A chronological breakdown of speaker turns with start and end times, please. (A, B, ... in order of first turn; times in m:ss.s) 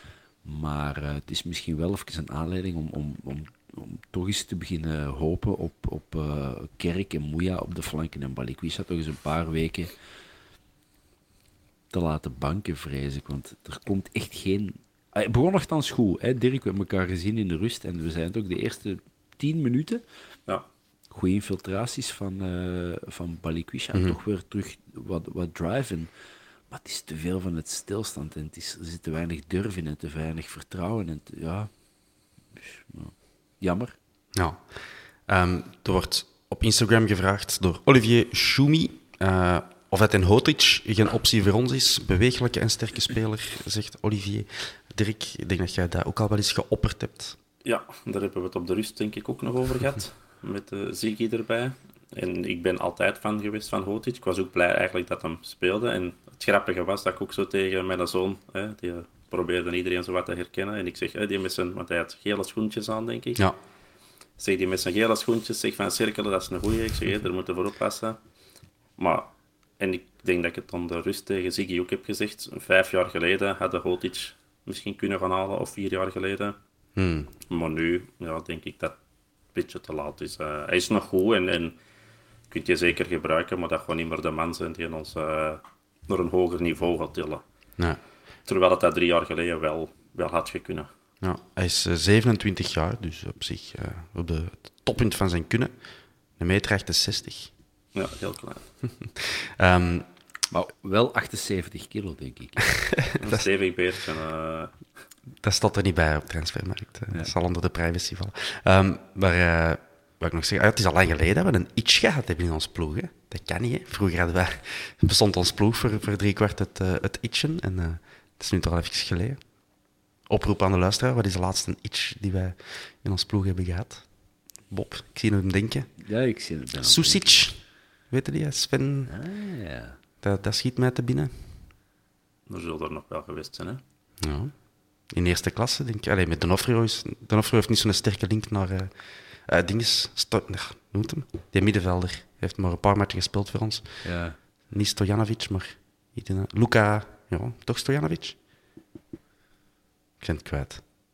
0:00.4-0:09.9 A
0:11.9-0:20.0 A
0:21.1-0:26.1 A
0:26.7-0:31.7 A
0:32.5-0:34.0 A
0:34.3-0:47.4 B
0:47.6-1:03.4 C
1:04.4-1:08.2 C
1:09.0-1:16.6 C
1:17.0-1:17.3 B
1:17.5-1:18.9 C
1:19.5-1:21.7 C
1:22.5-1:27.4 C
1:28.5-1:30.9 C
1:31.2-1:35.7 B
1:36.4-1:37.5 B
1:37.9-1:38.7 C
1:38.8-1:40.0 B
1:40.5-1:42.8 A
1:43.2-1:43.4 B
1:43.2-1:44.7 C
1:45.4-1:59.4 B
2:00.3-2:04.0 B
2:04.7-2:05.9 B
2:06.0-2:07.4 A
2:06.8-2:09.1 B
2:09.1-2:10.0 A
2:10.2-2:11.6 B
2:12.5-2:13.8 C
2:14.2-2:14.5 B
2:15.1-2:23.9 B
2:24.0-2:24.4 A
2:24.7-2:28.4 B
2:30.2-2:30.8 B